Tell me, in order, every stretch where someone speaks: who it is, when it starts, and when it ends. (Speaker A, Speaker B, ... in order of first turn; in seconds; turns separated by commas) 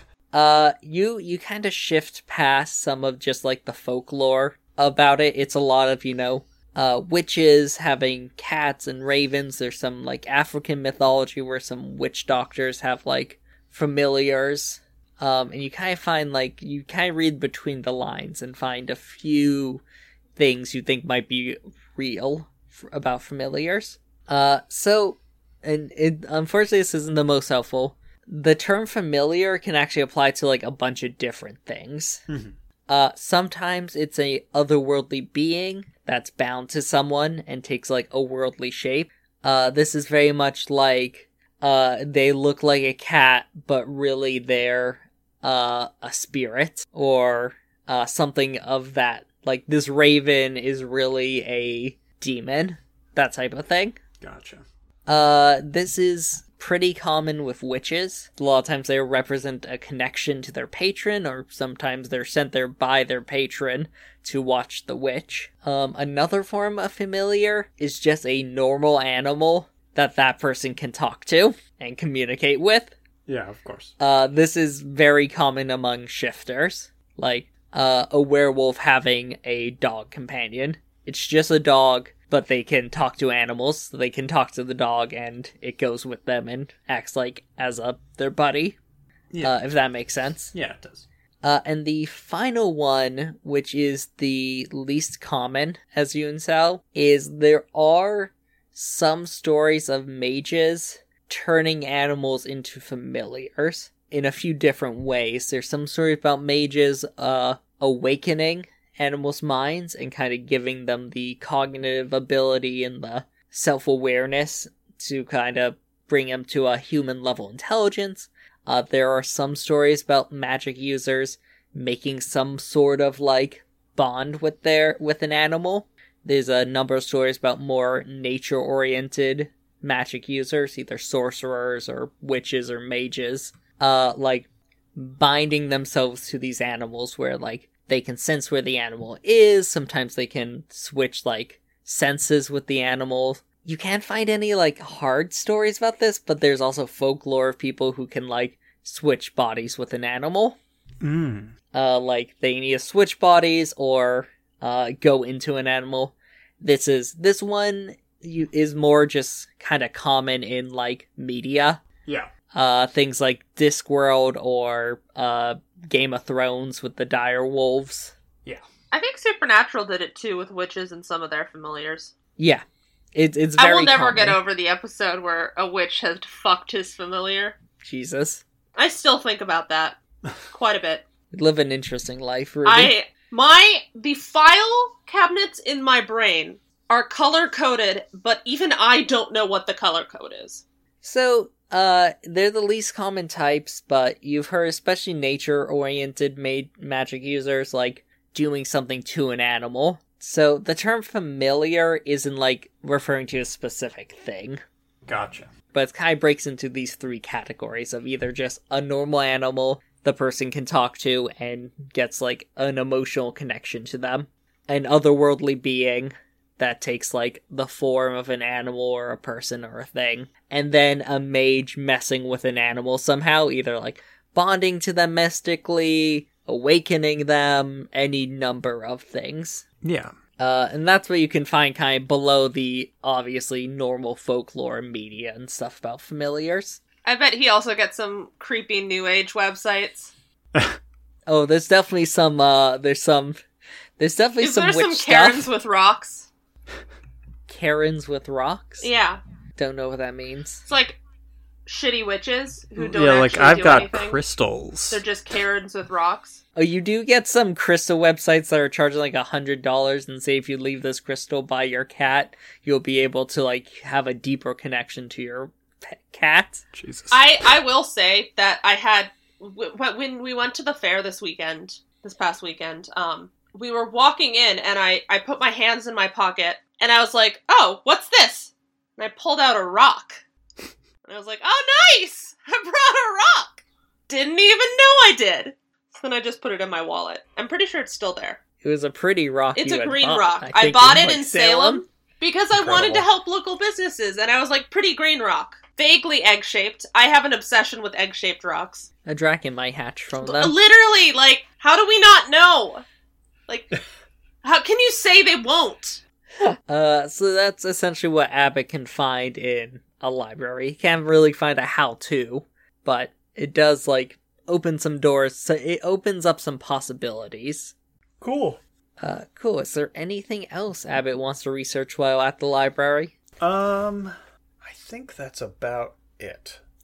Speaker A: 0.3-19.8, Speaker A: 20.4-32.2, Speaker B: 32.3-32.5, Speaker A: 32.9-54.0, Speaker B: 54.2-54.6, Speaker A: 55.1-72.9, Speaker B: 73.3-73.9, Speaker A: 74.0-88.8, Speaker B: 89.3-89.6, Speaker A: 89.4-90.5, Speaker B: 90.5-91.1, Speaker A: 91.4-150.6, Speaker B: 151.0-151.5, Speaker A: 151.7-161.8, Speaker A: 162.5-168.1, Speaker C: 168.9-172.1, Speaker A: 172.4-172.6, Speaker A: 173.1-174.4, Speaker C: 173.6-177.6, Speaker A: 177.8-178.4, Speaker C: 178.8-180.0, Speaker C: 180.5-181.0, Speaker A: 181.3-182.9, Speaker C: 182.7-190.6, Speaker A: 191.0-204.6, Speaker B: 205.1-205.5, Speaker A: 205.7-229.6, Speaker B: 229.8-230.1, Speaker A: 230.4-236.8, Speaker C: 237.0-240.1, Speaker A: 241.3-243.4, Speaker A: 244.0-245.5, Speaker C: 244.4-246.3, Speaker A: 247.5-248.9, Speaker C: 248.8-249.2, Speaker A: 249.6-250.6, Speaker C: 250.7-251.0, Speaker C: 251.7-254.2, Speaker B: 252.8-255.0, Speaker C: 254.9-256.4, Speaker A: 256.6-266.6, Speaker B: 266.7-267.3, Speaker C: 267.1-280.2, Speaker C: 281.0-288.4, Speaker A: 288.6-291.8, Speaker C: 289.6-298.9, Speaker B: 292.5-293.1, Speaker A: 299.1-300.5, Speaker C: 300.2-302.8, Speaker C: 304.4-306.0, Speaker A: 306.4-317.7, Speaker B: 318.2-318.6, Speaker A: 319.0-323.1, Speaker B: 323.4-326.6